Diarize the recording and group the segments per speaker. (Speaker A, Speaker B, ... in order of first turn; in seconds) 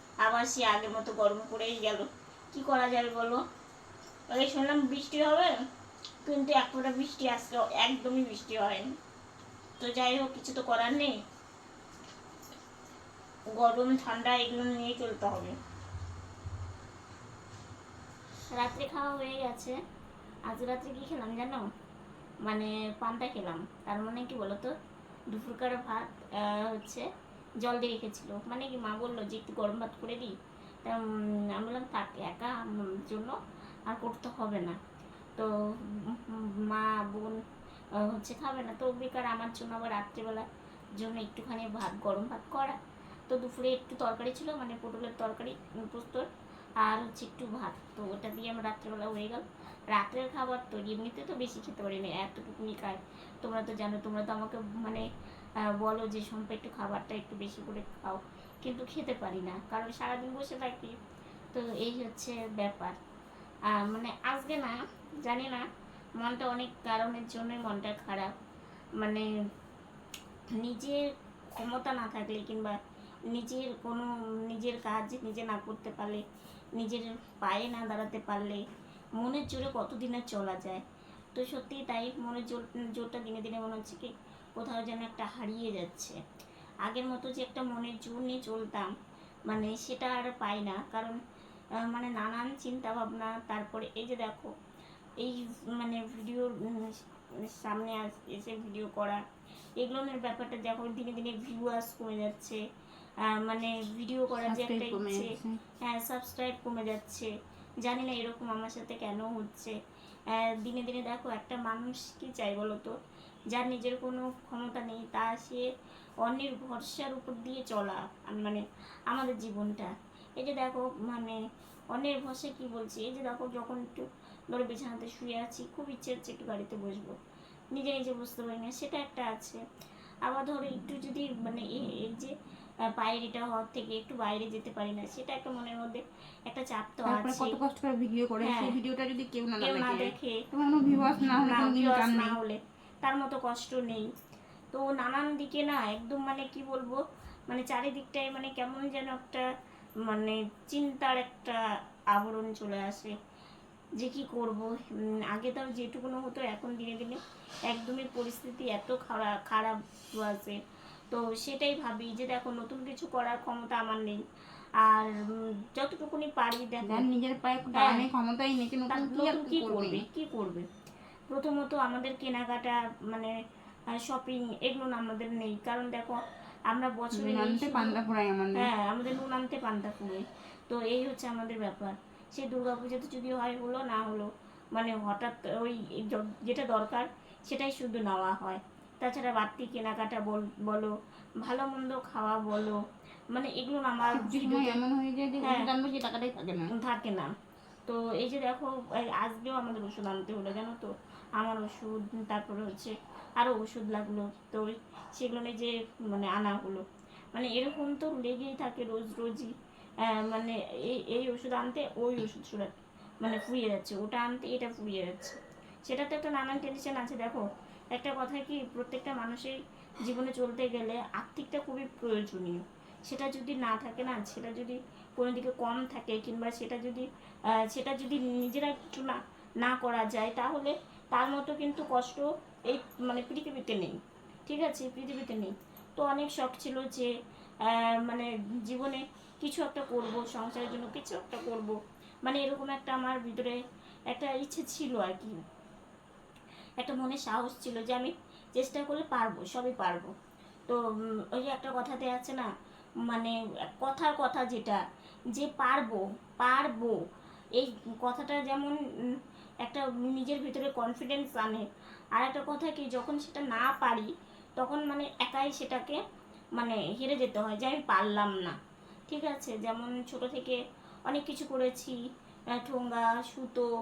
Speaker A: 0.2-3.4, 4.3-5.6, 6.2-8.9, 9.8-11.2, 13.5-15.6, 18.5-19.8, 20.5-21.6, 22.4-24.7, 25.3-27.1, 27.6-33.4, 33.9-34.8, 35.4-37.4, 38.0-40.5, 41.0-42.8, 43.3-46.3, 46.8-55.0, 55.6-60.9, 61.5-63.0, 63.7-65.6, 66.2-68.3, 69.0-69.3, 70.6-71.0, 71.5-72.8, 73.3-76.2, 76.8-78.6, 79.2-80.8, 81.3-86.2, 86.8-88.9, 89.5-91.2, 91.8-94.5, 95.2-99.2, 99.8-102.6, 103.3-105.2, 105.8-107.3, 107.8-109.7, 110.3-112.9, 113.5-115.7, 116.2-121.4, 121.9-127.2, 127.7-129.6, 130.2-132.3, 132.9-137.6, 138.4-138.7, 139.6-140.4, 141.4-144.1, 144.7-149.4, 150.1-151.6, 152.1-153.1, 154.0-154.7, 155.3-160.6, 161.1-164.2, 164.8-167.1, 167.7-168.0, 168.9-170.7, 171.3-173.3, 174.0-176.2, 176.7-178.0, 178.6-192.8, 193.3-194.8, 195.4-195.7, 196.7-197.3, 197.9-209.5, 210.1-227.1, 227.6-237.1, 237.7-243.6, 244.1-245.3, 246.8-250.1, 251.3-252.5, 253.1-254.8, 255.3-257.0, 257.6-258.8, 259.6-266.0, 266.6-268.6, 269.1-272.0, 272.6-273.7
Speaker B: 104.4-105.6, 137.0-142.4, 166.8-170.0, 177.1-178.7, 194.1-196.7